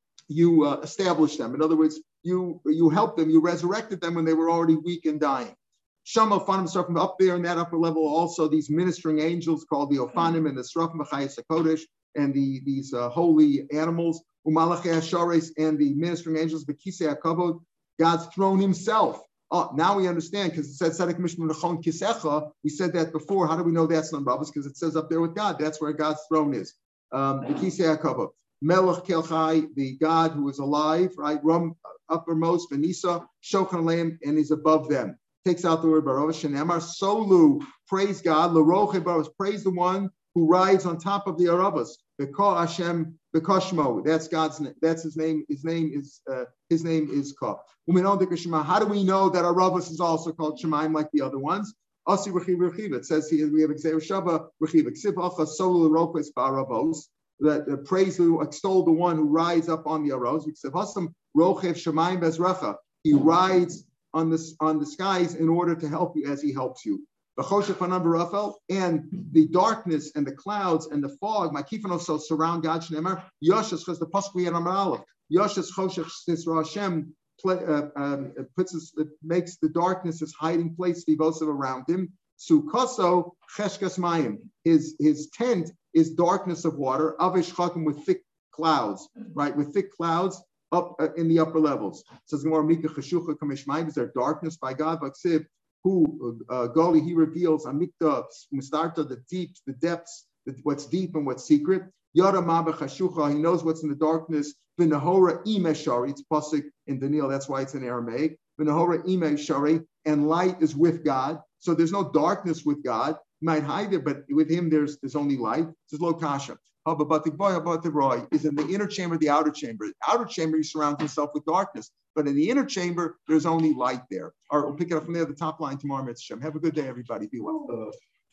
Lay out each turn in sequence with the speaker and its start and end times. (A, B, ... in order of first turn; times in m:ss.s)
0:00.3-2:07.8 A